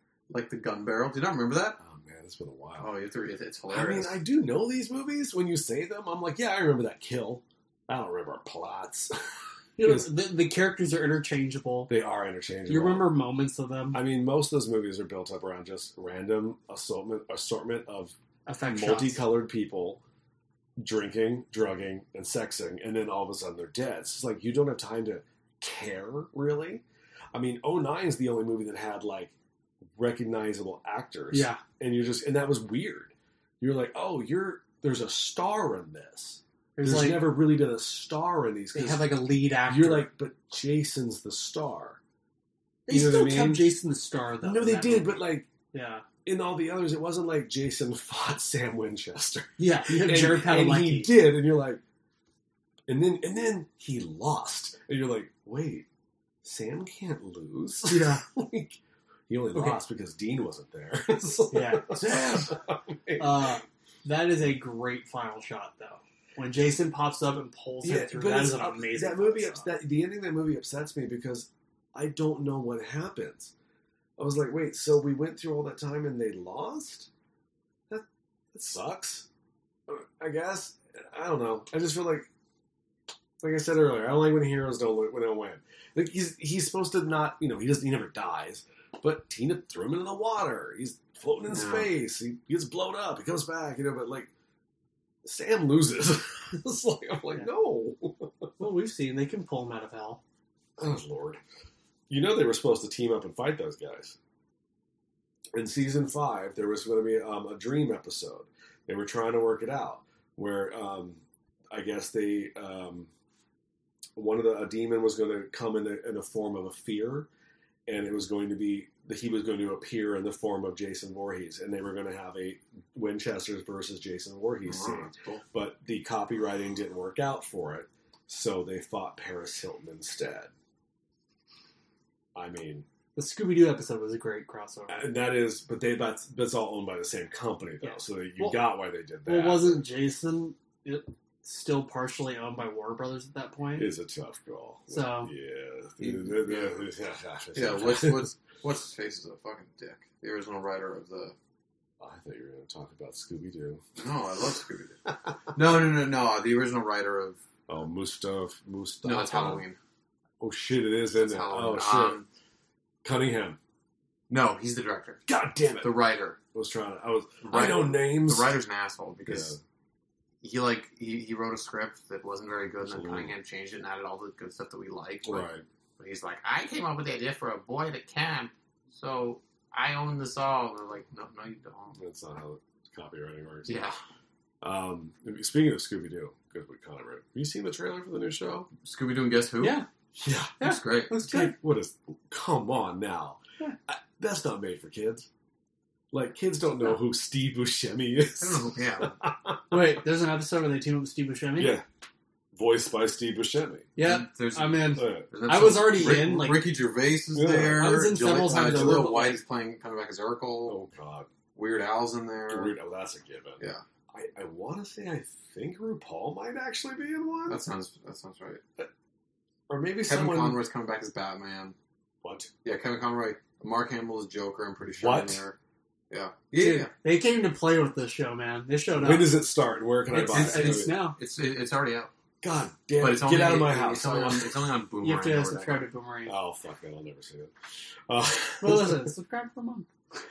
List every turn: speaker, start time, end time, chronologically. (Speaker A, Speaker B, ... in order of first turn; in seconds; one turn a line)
Speaker A: 0.3-1.8
Speaker B: 1.8-2.9
Speaker A: 2.8-4.2
Speaker B: 3.7-9.1
Speaker C: 9.8-11.9
Speaker B: 9.8-10.1
Speaker B: 11.9-13.1
Speaker C: 12.7-14.0
Speaker B: 13.9-18.1
Speaker C: 18.5-19.3
Speaker B: 18.7-20.0
Speaker B: 20.8-29.3
Speaker B: 30.0-42.0
Speaker C: 31.3-31.6
Speaker C: 36.8-37.3
Speaker C: 38.7-40.1
Speaker C: 42.9-46.0
Speaker B: 42.9-43.8
Speaker B: 44.4-45.5
Speaker B: 46.2-51.8
Speaker C: 49.6-51.1
Speaker B: 52.9-55.9
Speaker B: 56.4-58.8
Speaker C: 57.9-58.2
Speaker B: 59.3-63.5
Speaker C: 59.5-59.8
Speaker C: 61.5-62.2
Speaker C: 63.2-69.7
Speaker B: 67.8-73.5
Speaker B: 74.2-77.1
Speaker B: 77.9-79.3
Speaker B: 79.9-82.3
Speaker B: 83.4-94.3
Speaker A: 91.5-91.9
Speaker B: 95.2-98.5
Speaker C: 98.6-100.2
Speaker B: 100.8-101.4
Speaker B: 102.1-104.2
Speaker B: 105.5-113.1
Speaker B: 114.2-117.3
Speaker B: 117.9-130.5
Speaker A: 124.7-125.4
Speaker B: 132.3-132.9
Speaker C: 133.2-135.0
Speaker B: 134.9-139.8
Speaker C: 137.8-138.7
Speaker C: 139.2-143.9
Speaker B: 143.8-148.3
Speaker C: 144.9-145.3
Speaker A: 146.0-146.8
Speaker A: 147.6-151.3
Speaker B: 152.0-153.8
Speaker A: 154.0-155.0
Speaker A: 155.5-157.4
Speaker B: 157.7-159.6
Speaker A: 159.0-159.8
Speaker B: 160.4-162.2
Speaker A: 161.2-162.3
Speaker B: 163.0-163.6
Speaker A: 164.3-165.2
Speaker B: 165.3-166.0
Speaker A: 165.8-166.4
Speaker B: 166.5-168.6
Speaker A: 167.4-169.6
Speaker B: 169.3-169.6
Speaker A: 170.4-182.0
Speaker B: 172.8-173.3
Speaker B: 175.2-175.7
Speaker B: 181.9-183.9
Speaker A: 183.7-184.0
Speaker B: 184.6-188.7
Speaker A: 188.8-189.8
Speaker C: 189.6-189.9
Speaker B: 190.2-190.6
Speaker A: 190.6-191.1
Speaker C: 190.6-191.6
Speaker B: 191.2-195.3
Speaker B: 196.1-199.8
Speaker A: 198.4-199.2
Speaker C: 199.7-201.8
Speaker B: 201.6-201.8
Speaker B: 202.5-203.9
Speaker C: 204.0-206.7
Speaker A: 204.0-210.8
Speaker B: 205.0-205.3
Speaker B: 207.3-207.9
Speaker C: 207.8-209.4
Speaker B: 210.7-211.3
Speaker A: 211.6-212.7
Speaker B: 212.5-217.6
Speaker A: 217.5-218.6
Speaker B: 219.7-220.6
Speaker A: 220.1-221.8
Speaker B: 222.2-222.5
Speaker A: 222.7-225.6
Speaker B: 225.0-225.4
Speaker A: 226.1-226.9
Speaker C: 226.6-229.4
Speaker B: 229.0-230.9
Speaker C: 230.1-231.2
Speaker A: 230.1-232.1
Speaker B: 232.4-234.6
Speaker A: 233.0-235.9
Speaker C: 235.0-236.4
Speaker B: 236.3-237.5
Speaker B: 238.1-239.1
Speaker C: 238.6-239.9